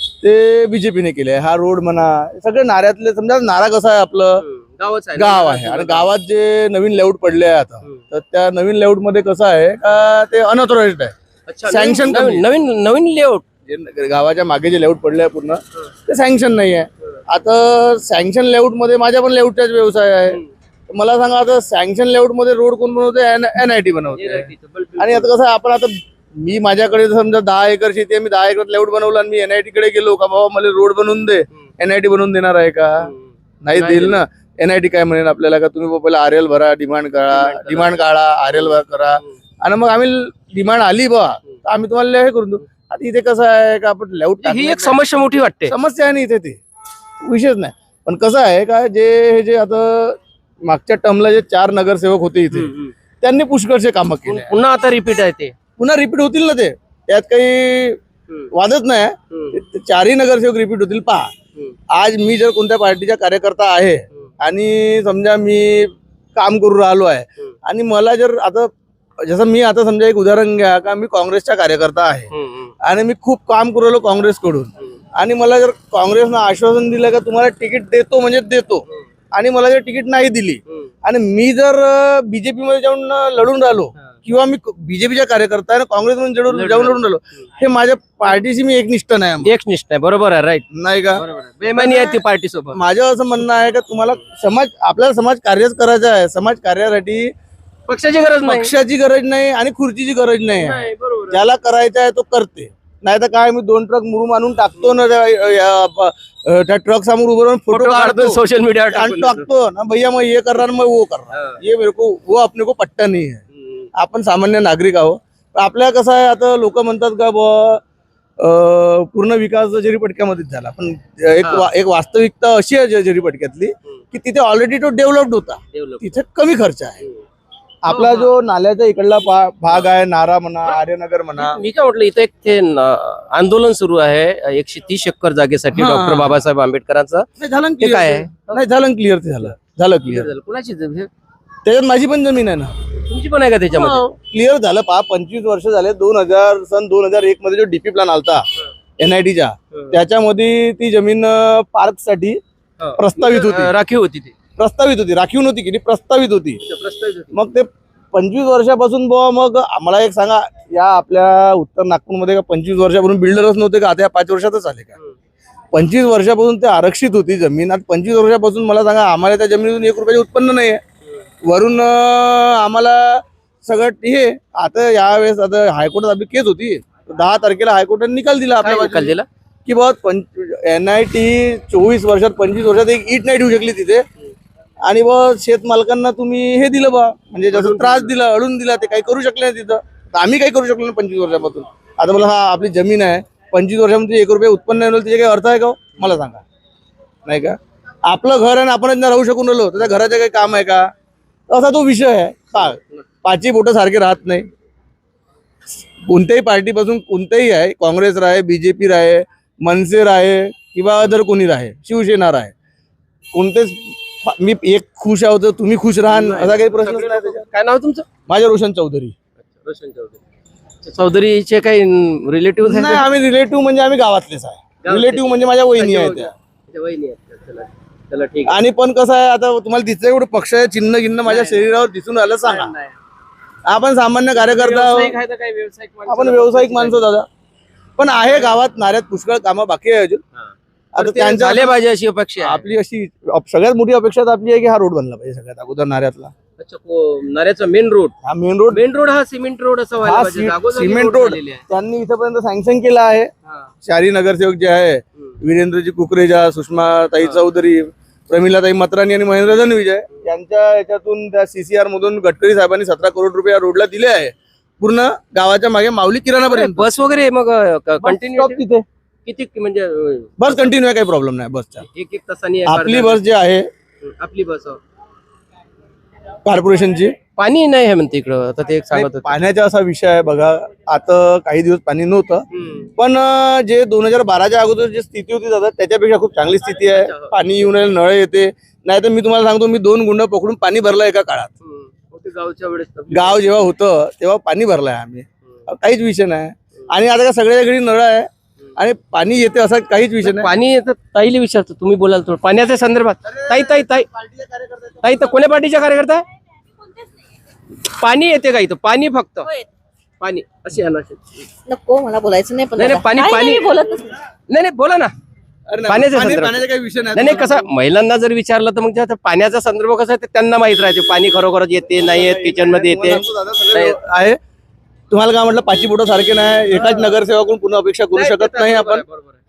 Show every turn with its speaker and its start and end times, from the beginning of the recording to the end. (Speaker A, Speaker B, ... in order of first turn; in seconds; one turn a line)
Speaker A: 0.2-4.4
Speaker B: 4.4-6.1
Speaker A: 5.1-11.1
Speaker B: 11.5-13.4
Speaker A: 11.7-12.5
Speaker A: 13.7-33.1
Speaker B: 24.1-25.3
Speaker B: 33.0-34.2
Speaker A: 33.6-45.0
Speaker B: 37.3-38.0
Speaker B: 44.4-45.7
Speaker A: 45.6-46.6
Speaker A: 47.2-54.6
Speaker B: 52.5-52.9
Speaker B: 54.2-55.5
Speaker A: 55.8-58.0
Speaker A: 58.5-61.3
Speaker B: 59.3-59.6
Speaker A: 61.9-72.3
Speaker B: 72.3-72.7
Speaker A: 72.8-89.5
Speaker B: 86.5-87.0
Speaker B: 89.4-90.6
Speaker A: 90.7-92.2
Speaker B: 91.2-92.8
Speaker A: 92.7-97.3
Speaker B: 97.9-98.7
Speaker A: 98.4-108.4
Speaker B: 100.5-101.4
Speaker B: 107.7-109.5
Speaker A: 108.9-113.4
Speaker B: 111.3-111.6
Speaker B: 113.5-113.9
Speaker A: 113.9-117.8
Speaker A: 118.4-127.0
Speaker B: 121.4-121.7
Speaker B: 125.7-126.2
Speaker A: 127.8-131.6
Speaker B: 127.9-128.3
Speaker B: 131.4-137.3
Speaker A: 135.7-136.3
Speaker A: 137.4-140.3
Speaker B: 137.8-138.6
Speaker B: 140.0-141.1
Speaker A: 141.6-142.7
Speaker B: 143.1-144.1
Speaker A: 143.8-148.4
Speaker A: 149.0-152.4
Speaker B: 152.8-154.3
Speaker A: 153.0-153.7
Speaker A: 154.6-156.6
Speaker B: 156.7-157.4
Speaker A: 157.3-164.9
Speaker A: 165.7-170.8
Speaker A: 171.4-184.0
Speaker B: 178.6-179.2
Speaker A: 184.8-196.4
Speaker B: 187.5-188.1
Speaker A: 197.2-200.9
Speaker A: 201.5-204.5
Speaker A: 206.0-212.5
Speaker A: 213.3-217.4
Speaker B: 216.1-218.1
Speaker A: 218.3-219.1
Speaker B: 219.4-220.2
Speaker B: 220.8-223.0
Speaker A: 222.6-226.3
Speaker B: 224.8-228.5
Speaker A: 228.4-232.7
Speaker B: 231.2-231.7
Speaker B: 232.4-233.0
Speaker A: 233.7-235.2
Speaker B: 234.3-237.1
Speaker A: 236.1-237.3
Speaker A: 238.0-240.2
Speaker B: 240.3-242.7
Speaker A: 240.9-241.8
Speaker A: 242.4-246.3
Speaker B: 246.6-248.1
Speaker A: 248.2-248.8
Speaker B: 248.7-251.6
Speaker A: 250.0-253.3
Speaker A: 253.8-266.9
Speaker B: 266.4-268.6
Speaker A: 268.0-268.8
Speaker B: 269.2-270.3
Speaker A: 270.4-271.8
Speaker B: 271.8-273.2
Speaker A: 272.6-273.7
Speaker B: 274.0-274.8
Speaker A: 276.4-277.1
Speaker B: 277.4-279.3
Speaker A: 278.9-282.4
Speaker B: 282.5-282.9
Speaker A: 283.0-291.5
Speaker B: 286.7-287.3
Speaker B: 291.6-293.4
Speaker A: 293.1-300.5
Speaker B: 300.2-304.1
Speaker A: 303.3-305.2
Speaker B: 305.0-306.2
Speaker B: 307.8-309.5
Speaker B: 310.2-311.4
Speaker C: 311.7-314.0
Speaker B: 312.8-313.8
Speaker B: 314.5-315.1
Speaker A: 315.7-317.7
Speaker B: 315.9-324.0
Speaker A: 322.0-324.4
Speaker A: 325.1-329.0
Speaker B: 326.7-327.1
Speaker B: 328.1-329.4